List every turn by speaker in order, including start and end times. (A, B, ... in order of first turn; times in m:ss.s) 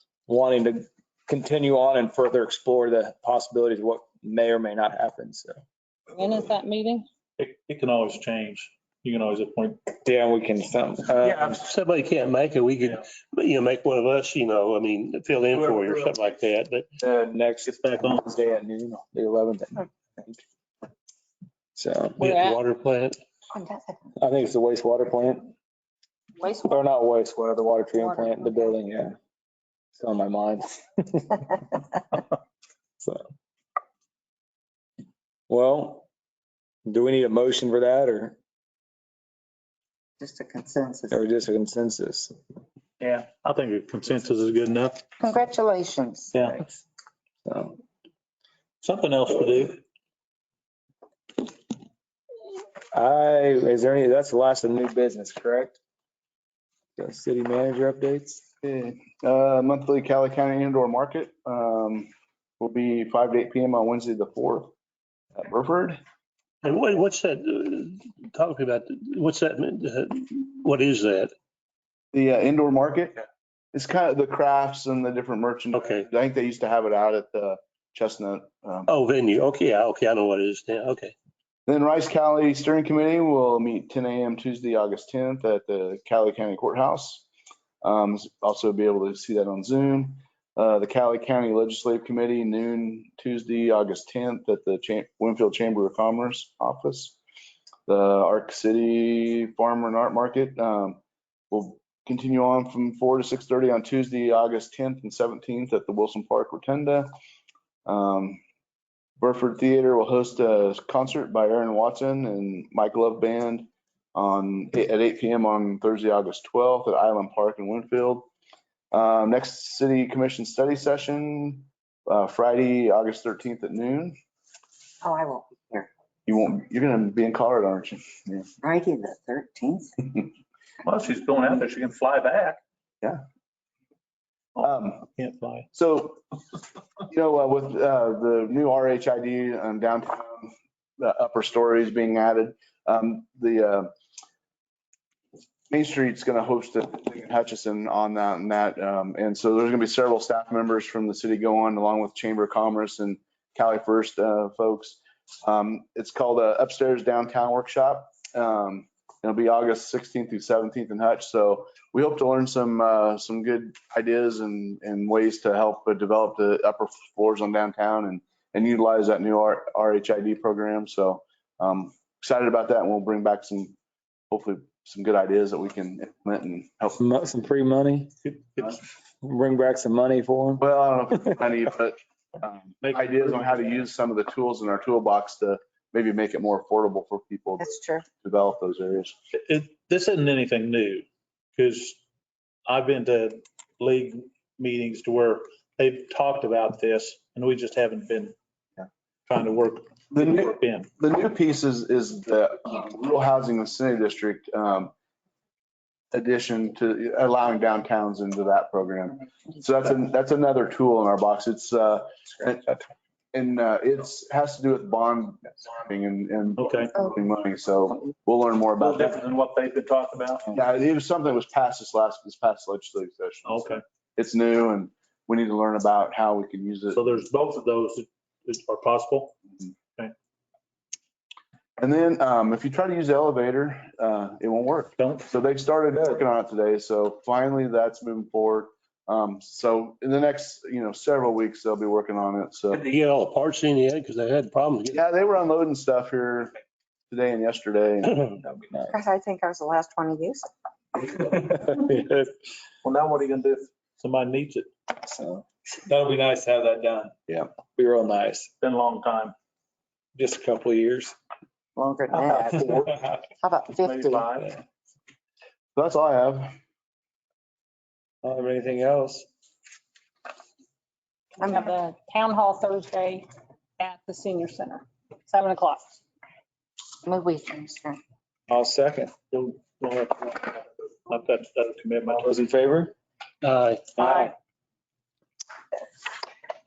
0:00.3-0:05.6 A
0:06.1-0:07.0 B
0:07.4-0:09.8 C
0:10.0-0:11.6 A
0:11.2-0:16.9 D
0:17.0-0:20.4 A
0:17.6-0:18.2 C
0:21.8-0:22.2 A
0:22.2-0:23.2 D
0:22.2-0:22.6 B
0:23.5-0:24.1 E
0:24.2-0:25.5 A
0:26.4-0:26.7 B
0:26.6-0:29.2 A
0:30.0-0:31.6 A
0:35.5-0:36.0 A
0:36.8-0:38.4 A
0:40.2-0:41.2 E
0:41.1-0:42.3 A
0:43.0-0:45.0 C
0:45.2-0:46.8 E
0:46.3-0:46.6 C
0:47.4-0:47.8 A
0:48.8-0:49.8 C
0:52.9-0:55.8 A
0:57.0-0:58.4 A
0:58.6-1:04.7 F
1:05.4-1:06.0 F
1:06.6-1:11.3 D
1:12.1-1:13.2 F
1:13.7-1:18.9 F
1:15.7-1:16.1 D
1:18.9-1:21.1 D
1:21.7-1:27.3 F
1:27.8-1:37.2 F
1:37.9-1:41.0 F
1:41.5-1:47.1 F
1:47.9-1:48.4 F
1:49.2-1:58.3 F
1:58.9-2:04.2 F
2:05.0-2:05.9 E
2:06.3-2:08.5 F
2:08.6-2:10.0 E
2:10.8-2:12.6 C
2:14.6-2:15.7 C
2:14.6-2:15.1 F
2:15.7-2:16.2 F
2:17.1-2:23.9 F
2:25.7-2:53.8 F
2:54.3-2:57.0 F
2:57.0-2:58.1 A
2:58.2-2:58.8 C
2:59.2-3:00.6 A
3:00.6-3:09.2 F
3:02.8-3:03.5 C
3:07.6-3:08.1 E
3:09.4-3:12.0 C
3:12.7-3:18.3 C
3:19.3-3:20.9 C
3:20.1-3:24.9 F
3:26.1-3:32.8 F
3:33.3-3:39.2 F
3:36.6-3:36.9 C
3:38.8-3:40.5 C
3:40.5-3:47.0 F
3:43.4-3:43.8 C
3:46.9-3:49.3 C
3:51.8-4:02.8 F
3:55.0-3:55.3 C
4:02.7-4:05.0 D
4:04.9-4:06.5 F
4:07.1-4:08.2 F
4:08.4-4:08.9 A
4:08.9-4:10.5 E
4:11.0-4:12.3 A
4:12.8-4:14.7 C
4:15.0-4:17.1 A
4:17.8-4:18.5 A
4:18.6-4:19.3 C
4:20.1-4:21.1 A
4:21.8-4:24.2 E
4:23.8-4:24.6 C
4:25.8-4:26.5 F
4:28.2-4:29.2 A
4:31.4-4:33.3 B
4:33.8-4:35.9 B
4:37.0-4:38.0 E
4:38.5-4:39.1 A
4:39.3-4:42.4 C
4:42.1-4:42.9 A
4:43.4-4:44.0 D
4:44.0-4:44.3 B
4:44.0-4:44.3 C